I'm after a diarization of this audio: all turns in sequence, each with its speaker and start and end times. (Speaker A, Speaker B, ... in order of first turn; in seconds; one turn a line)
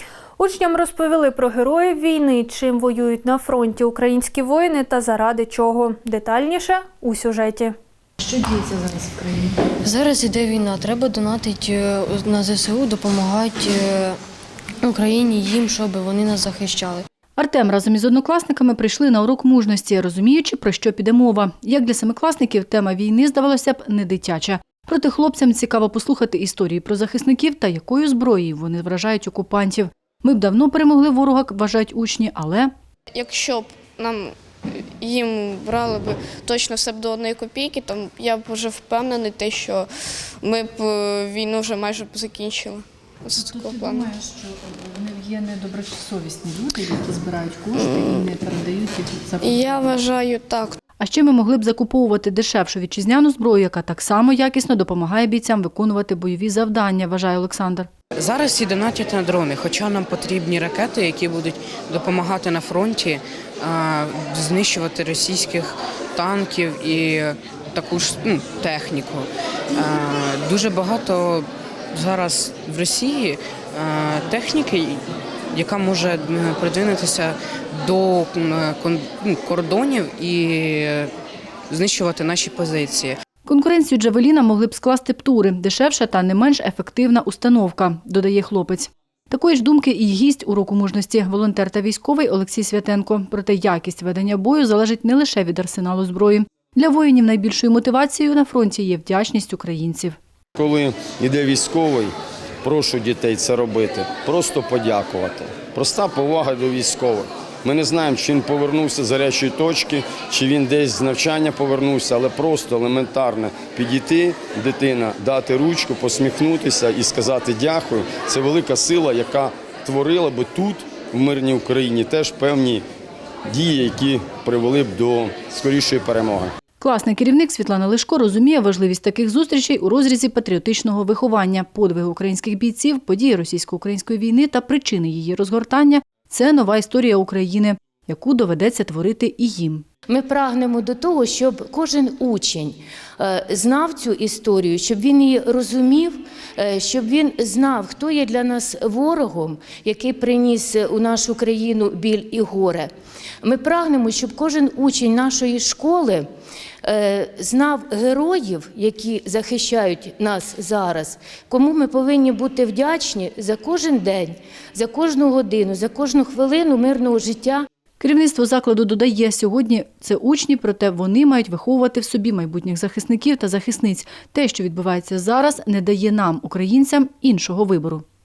Speaker A: 0.4-7.7
Speaker B: 8.4-14.2
Speaker B: 14.8-17.1
Speaker C: 17.4-32.7
Speaker D: 33.1-44.1
Speaker C: 43.4-49.9
Speaker D: 47.7-48.3
Speaker D: 49.4-50.8
Speaker C: 51.0-57.9
Speaker E: 58.2-75.0
Speaker E: 75.5-81.1
Speaker E: 81.7-83.2
Speaker C: 83.5-100.2
Speaker F: 100.6-102.1
Speaker F: 102.6-122.8
Speaker F: 123.5-126.5
Speaker C: 126.8-139.8
Speaker G: 140.1-152.9
Speaker G: 153.4-156.3
Speaker G: 156.8-167.7
Speaker C: 168.0-178.1